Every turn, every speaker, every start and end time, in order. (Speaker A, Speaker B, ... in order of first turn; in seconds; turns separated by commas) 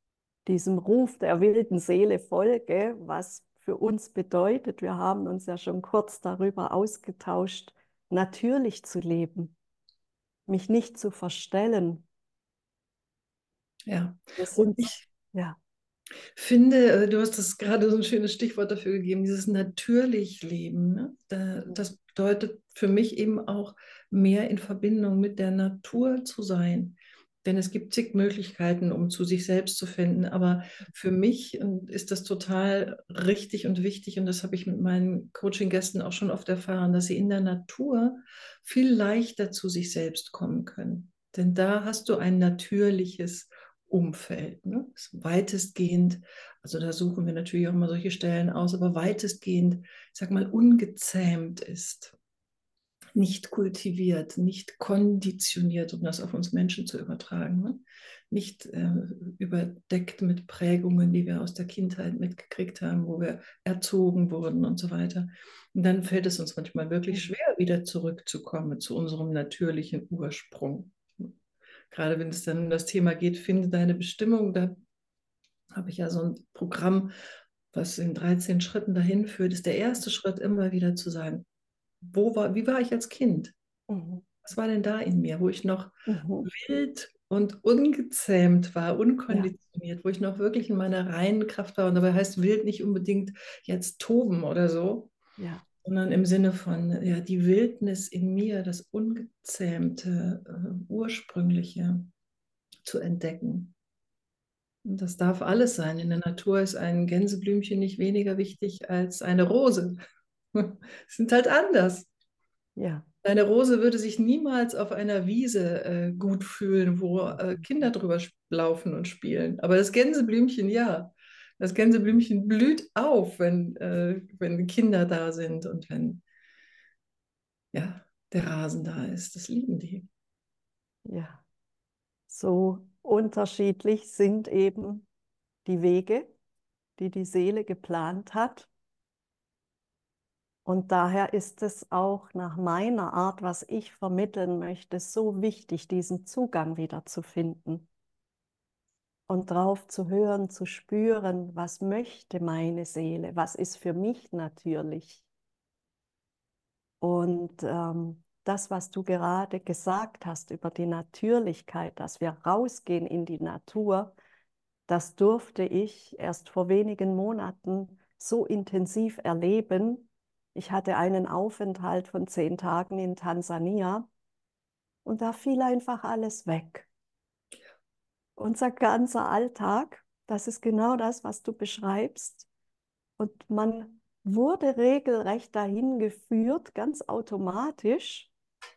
Speaker A: 0.5-9.5, Speaker A: 10.5-12.0, Speaker B: 13.9-15.0, Speaker A: 14.4-15.6, Speaker B: 16.4-52.2, Speaker B: 53.1-71.3, Speaker B: 71.9-74.8, Speaker B: 75.7-77.1, Speaker B: 77.7-81.5, Speaker B: 82.0-83.5, Speaker A: 83.9-84.2, Speaker B: 84.4-95.1, Speaker A: 86.1-86.5, Speaker A: 95.4-95.7, Speaker B: 95.8-102.1, Speaker B: 102.8-103.7, Speaker B: 104.8-110.0, Speaker B: 110.5-112.1, Speaker A: 112.8-113.1, Speaker B: 113.2-126.2, Speaker A: 117.4-117.6, Speaker B: 127.7-130.1, Speaker A: 131.1-131.4, Speaker A: 132.3-135.1, Speaker A: 135.7-136.3, Speaker A: 137.0-138.7, Speaker A: 140.7-147.9, Speaker A: 149.3-155.3, Speaker A: 157.0-164.2, Speaker A: 164.9-174.1, Speaker A: 175.1-176.9, Speaker A: 178.4-182.5, Speaker A: 183.2-188.3